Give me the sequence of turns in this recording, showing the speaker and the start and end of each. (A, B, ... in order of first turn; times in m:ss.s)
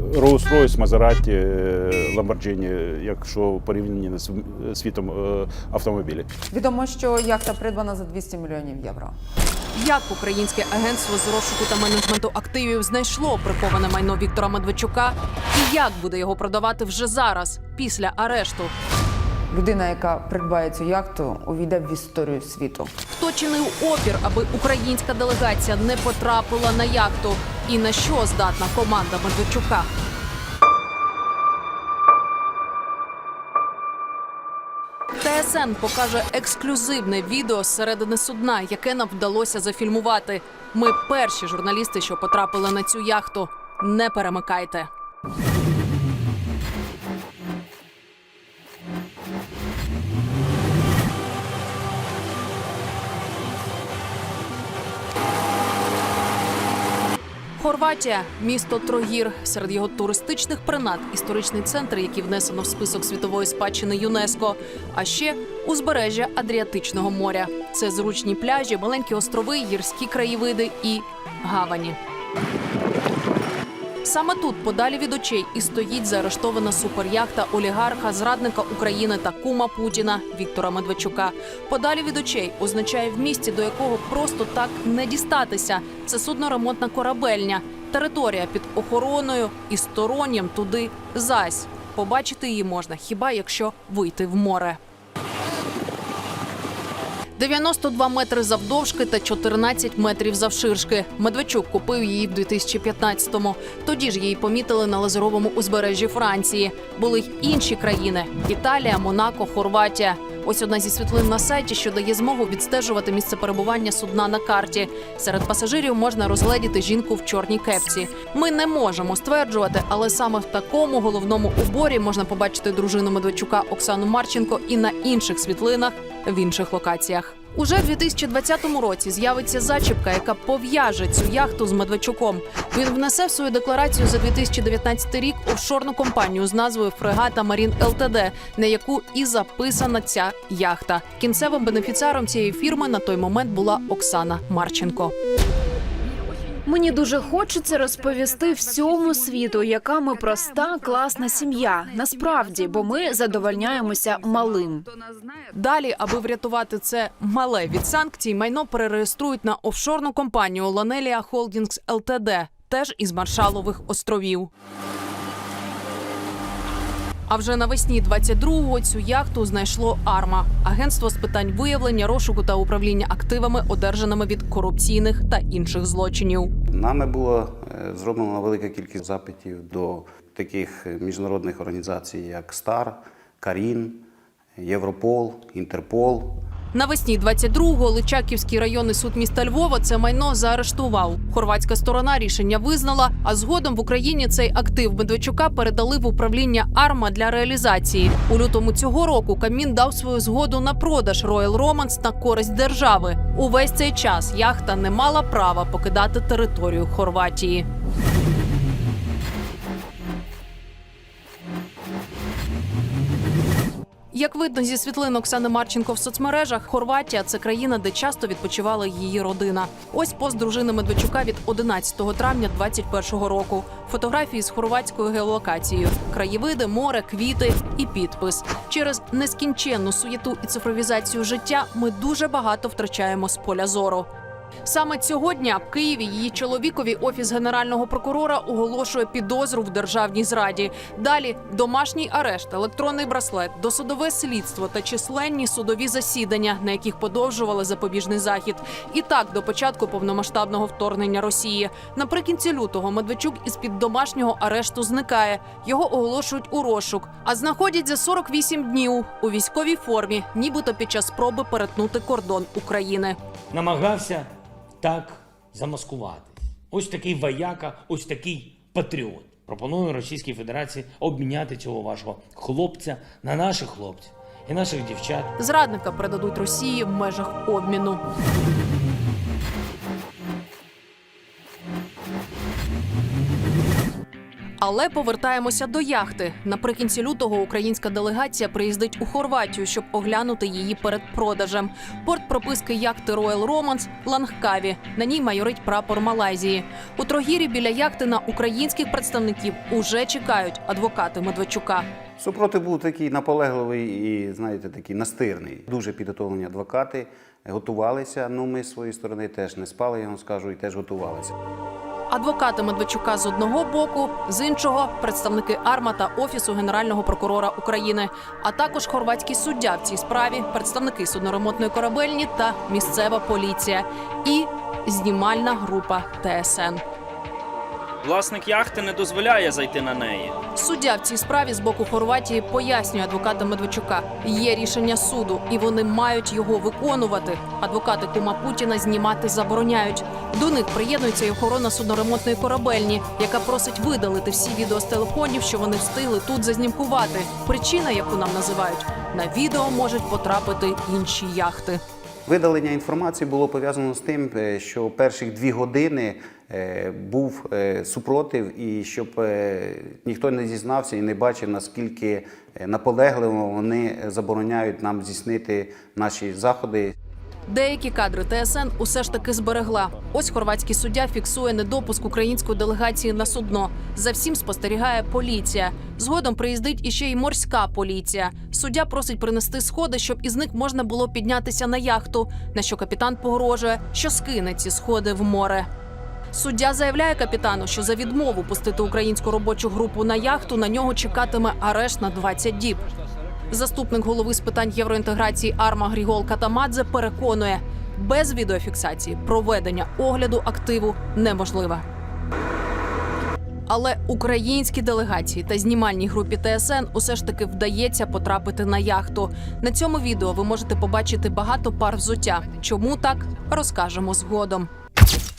0:00.1-0:06.3 A
0:06.5-0:09.1 B
0:09.8-0:18.7 C
0:19.5-0:22.9 B
0:23.1-0:29.9 C
0:35.2-0:44.9 C
0:57.6-1:12.0 C
1:14.0-1:34.8 C
1:37.4-2:25.2 C
2:26.7-2:34.9 D
2:35.5-2:44.5 C
2:47.3-2:56.5 C
2:56.7-3:04.1 E
3:04.6-3:06.4 E
3:06.7-3:27.7 C
3:34.1-3:54.1 C
3:54.6-4:23.2 C
4:23.5-4:35.3 F
4:35.4-4:38.0 C
4:44.6-5:01.9 C
5:02.2-5:11.3 E
5:12.1-5:26.8 C
5:28.0-5:30.3 G
5:30.6-5:51.8 C
5:52.3-6:06.9 E
6:07.5-6:25.7 C
6:26.3-6:32.8 C
6:33.5-6:41.8 C
6:43.7-6:54.7 C